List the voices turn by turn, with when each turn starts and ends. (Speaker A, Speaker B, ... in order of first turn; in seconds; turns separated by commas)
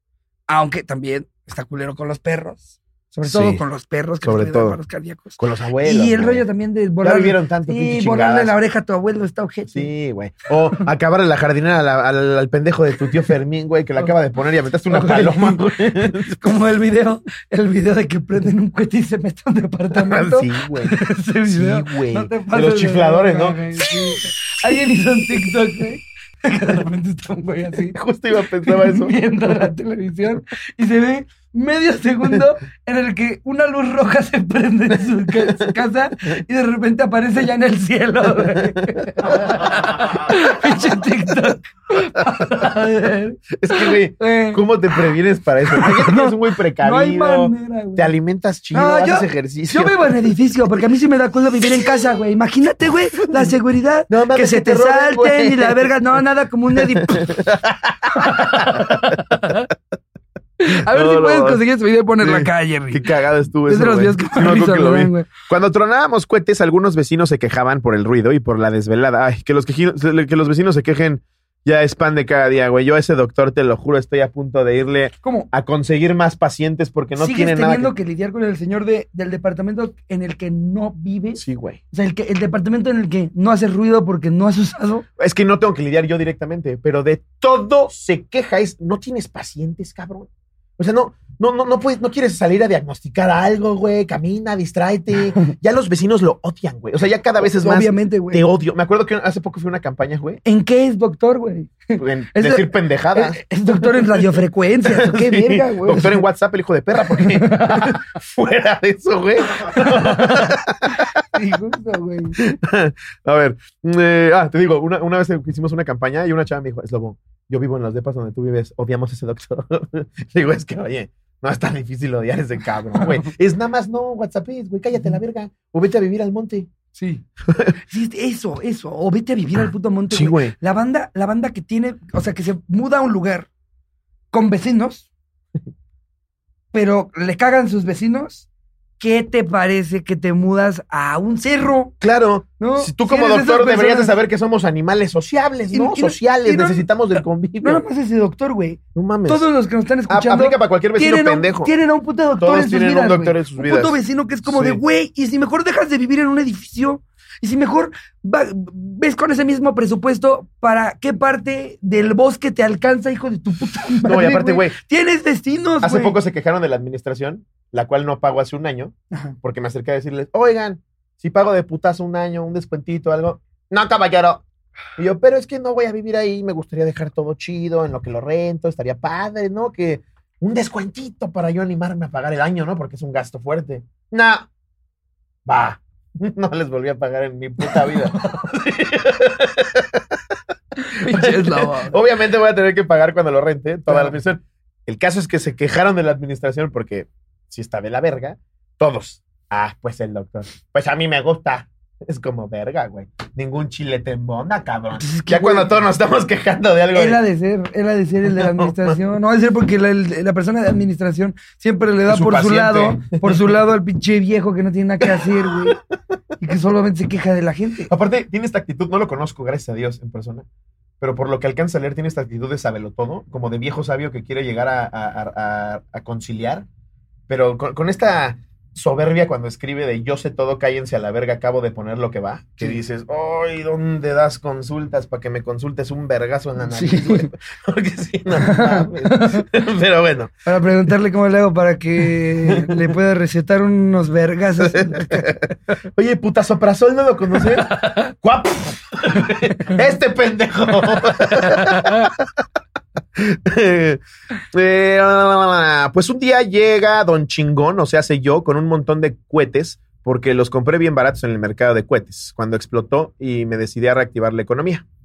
Speaker A: 0.5-9.9, Speaker B: 3.2-3.6, Speaker B: 4.2-4.8, Speaker B: 5.4-6.4, Speaker B: 7.0-8.6, Speaker B: 9.7-16.5, Speaker A: 14.9-28.0, Speaker B: 19.9-21.0, Speaker B: 21.5-24.2, Speaker B: 27.9-29.1, Speaker A: 28.6-44.6, Speaker B: 35.3-35.7, Speaker B: 38.4-40.4, Speaker B: 43.6-50.3, Speaker A: 45.7-48.1, Speaker A: 48.7-57.5, Speaker B: 54.1-55.9, Speaker B: 56.8-59.5, Speaker A: 58.1-59.7, Speaker A: 60.6-63.1, Speaker B: 60.8-61.6, Speaker B: 62.2-77.9, Speaker A: 63.7-65.3, Speaker A: 75.2-75.5, Speaker A: 77.2-85.0, Speaker B: 81.4-81.8, Speaker B: 85.2-100.4, Speaker A: 97.4-98.4, Speaker A: 100.5-106.2, Speaker B: 102.0-104.2, Speaker B: 104.9-111.2, Speaker A: 107.0-108.0, Speaker A: 109.7-112.4, Speaker B: 112.4-126.7, Speaker A: 126.9-127.2, Speaker B: 127.5-127.7, Speaker A: 127.9-133.5, Speaker B: 130.1-130.5, Speaker A: 134.3-135.1, Speaker A: 136.7-138.5, Speaker A: 139.0-141.9, Speaker B: 142.0-147.8, Speaker A: 142.6-144.1, Speaker A: 145.7-146.9, Speaker A: 147.6-166.2, Speaker B: 148.9-149.5, Speaker B: 150.1-151.7, Speaker B: 152.4-154.8, Speaker B: 164.0-164.8, Speaker B: 165.8-174.4, Speaker A: 169.1-169.4, Speaker B: 175.0-184.5, Speaker B: 185.5-190.4, Speaker A: 187.6-188.4, Speaker A: 190.8-192.0, Speaker B: 191.0-207.2, Speaker A: 193.9-194.2, Speaker A: 205.0-205.7, Speaker A: 206.9-215.8, Speaker B: 208.3-209.0, Speaker B: 212.1-213.6, Speaker B: 215.0-215.8, Speaker A: 216.4-217.9, Speaker B: 217.9-220.5, Speaker B: 221.0-226.7, Speaker B: 227.3-240.3, Speaker A: 236.7-237.3, Speaker A: 238.3-239.5, Speaker A: 240.5-245.4, Speaker B: 242.5-242.9, Speaker B: 244.6-252.3, Speaker A: 247.7-248.0, Speaker A: 251.6-252.1, Speaker B: 253.2-254.0, Speaker B: 254.5-264.9